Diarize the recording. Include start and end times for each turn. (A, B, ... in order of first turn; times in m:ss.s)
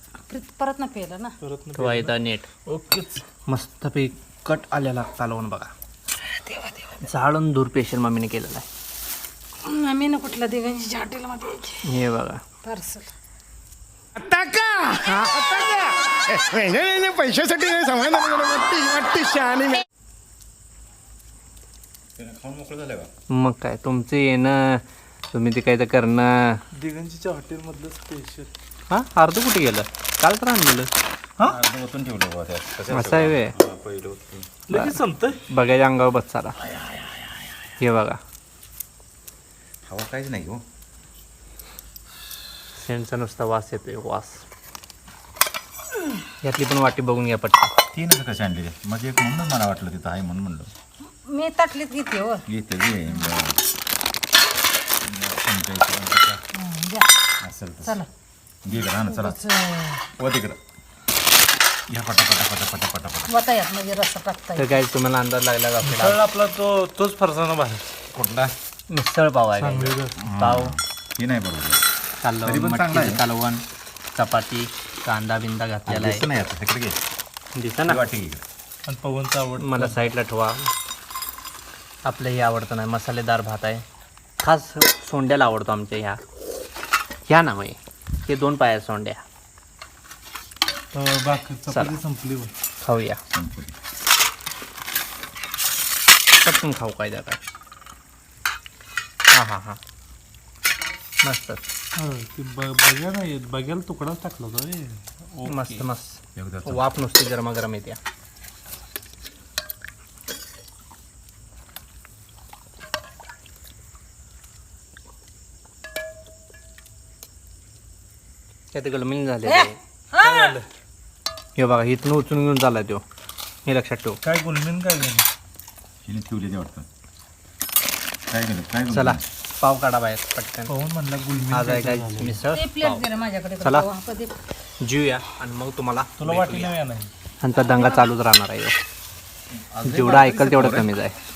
0:00.3-0:01.4 A
0:01.4-0:02.1 B
0:01.8-0:02.5 C
0:02.7-0:03.2 B
0:03.5-0:05.7 C
0:06.3-0:06.9 A
0:07.0-0:08.7 C
0:09.6-0:11.8 A
0:11.8-0:12.4 C
0:12.6-0:13.1 A
0:14.2-0:15.0 D
0:16.3-0:19.8 D
0:22.2-0:23.1 E
0:23.3-0:26.6 C
0:26.8-0:28.5 B
0:28.9-0:30.9 C
0:31.4-0:34.5 E
0:32.9-0:33.5 C
0:34.7-0:35.4 B
0:34.7-0:36.6 C
0:36.6-0:37.7 E
0:37.8-0:38.2 C
0:39.9-0:40.6 E
0:42.8-0:44.4 C
0:46.4-0:47.7 C
0:47.9-0:50.7 E
0:51.2-0:52.4 A
0:52.5-0:53.6 E
0:55.0-0:56.4 E
0:56.6-0:57.1 A
0:57.4-0:58.0 E
0:58.6-0:59.5 E
0:59.2-1:00.0 A
1:00.2-1:00.6 E
1:01.9-1:03.4 E
1:03.3-1:04.7 A
1:04.6-1:06.2 C
1:05.8-1:07.8 B
1:08.2-1:08.5 E
1:08.9-1:10.7 C
1:09.5-1:10.2 B
1:10.2-1:11.8 E
1:12.2-1:13.6 C
1:12.4-1:13.2 E
1:14.2-1:16.3 C
1:15.9-1:17.0 E
1:17.6-1:18.0 C
1:17.8-1:18.4 E
1:18.9-1:20.0 B
1:19.6-1:20.7 C
1:22.1-1:23.8 C
1:24.4-1:26.2 C
1:27.3-1:29.2 C
1:30.9-1:32.5 B
1:32.8-1:33.2 C
1:33.3-1:33.8 E
1:36.4-1:37.4 C
1:39.3-1:39.8 C
1:41.2-1:41.6 C
1:42.0-1:45.9 B
1:45.4-1:48.0 C
1:46.4-1:46.8 E
1:58.7-1:59.8 C
2:00.1-2:00.7 B
2:01.6-2:03.0 C
2:03.7-2:04.2 C
2:04.2-2:05.3 B
2:06.0-2:06.9 E
2:08.3-2:09.2 E
2:08.9-2:10.7 C
2:10.7-2:12.4 B
2:11.5-2:13.1 C
2:12.5-2:14.4 A
2:13.6-2:13.9 C
2:14.8-2:16.7 C
2:16.2-2:17.1 B
2:17.4-2:18.8 C
2:19.5-2:20.9 E
2:19.8-2:21.2 C